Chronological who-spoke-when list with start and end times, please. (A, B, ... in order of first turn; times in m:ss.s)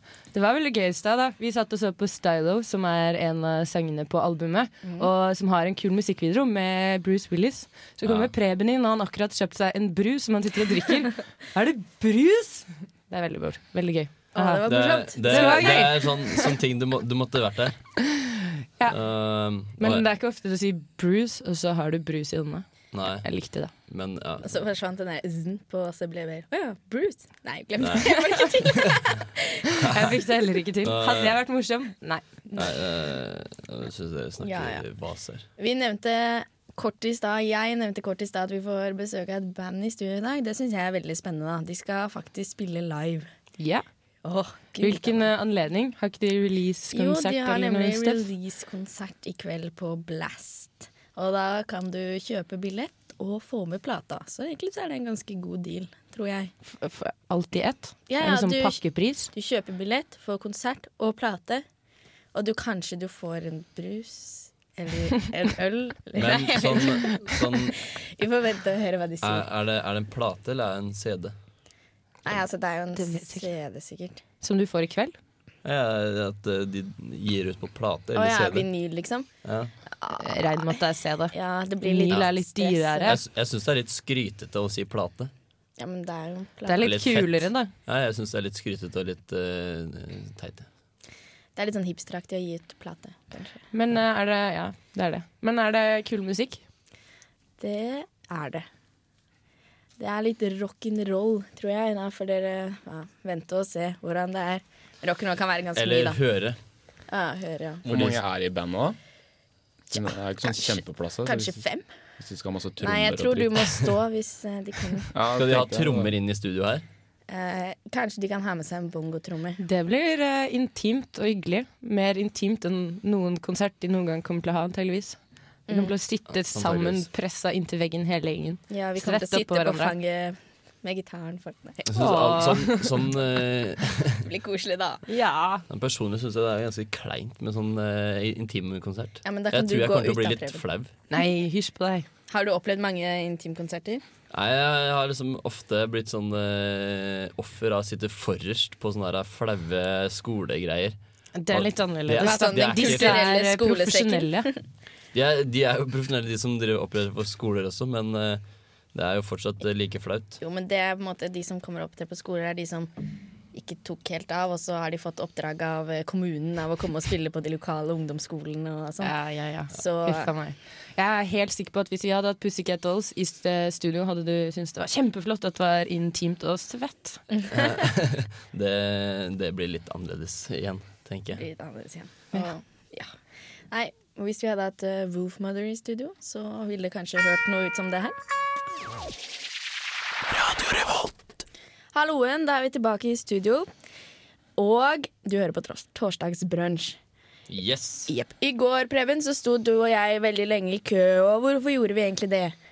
0:00.3-0:14.6 A
0:04.8-0:05.1 B
0:08.0-0:08.3 C
0:14.3-0:15.9 B
0:14.6-0:17.8 C
0:15.2-0:16.6 A
0:18.9-0:20.0 C
0:19.8-0:22.6 A
0:22.9-0:23.2 C
0:23.2-0:23.7 A
0:23.9-0:24.5 C
0:24.4-0:29.7 B
0:27.8-0:28.1 C
0:28.0-0:28.4 A
0:29.8-0:32.3 A
0:30.8-0:31.4 C
0:32.6-0:35.4 C
0:34.4-0:34.8 B
0:35.6-0:43.3 B
0:43.6-0:43.8 A
0:44.2-0:45.2 B
0:44.8-0:48.2 A
0:46.9-0:56.5 B
0:56.7-0:59.3 A
0:58.1-1:01.6 B
1:02.3-1:09.4 B
1:06.2-1:07.8 C
1:09.2-1:11.3 C
1:12.2-1:14.2 B
1:13.0-1:13.4 A
1:14.4-1:15.2 A
1:15.6-1:18.7 C
1:18.1-1:19.3 B
1:19.4-1:19.7 C
1:20.0-1:20.8 B
1:20.2-1:23.2 A
1:21.3-1:23.2 B
1:23.0-1:25.3 C
1:25.8-1:26.9 B
1:26.6-1:27.7 A
1:26.8-1:30.7 C
1:31.6-1:33.6 B
1:33.7-1:36.6 A
1:37.6-1:38.6 B
1:40.0-1:46.2 B
1:45.8-1:46.6 C
1:47.1-1:47.8 B
1:47.8-1:48.2 C
1:47.8-1:49.0 D
1:49.9-1:51.6 D
1:49.9-1:51.9 B
1:52.2-1:53.8 D
1:52.8-1:55.1 B
1:55.1-1:56.1 D
1:55.3-1:56.8 C
1:57.3-1:59.6 B
1:59.6-2:05.2 A
2:05.7-2:05.9 B
2:05.7-2:09.9 A
2:06.3-2:07.1 C
2:08.7-2:11.9 B
2:11.9-2:14.2 C
2:12.0-2:13.1 A
2:14.2-2:15.0 B
2:15.1-2:15.6 A
2:15.7-2:20.9 C
2:19.2-2:20.6 B
2:21.1-2:22.1 A
2:22.3-2:24.0 B
2:24.3-2:31.0 C
2:31.4-2:34.5 A
2:31.5-2:33.2 C
2:32.2-2:34.5 B
2:35.1-2:38.4 C
2:38.9-2:40.4 C
2:40.4-2:42.9 B
2:43.5-2:49.1 B
2:49.0-2:57.2 A
2:49.7-2:50.3 B
2:57.3-2:57.6 B
2:57.5-3:01.4 C
3:01.4-3:03.1 B
3:03.7-3:08.1 B
3:11.9-3:13.7 B
3:14.6-3:17.0 B
3:17.5-3:18.1 C
3:18.1-3:22.6 B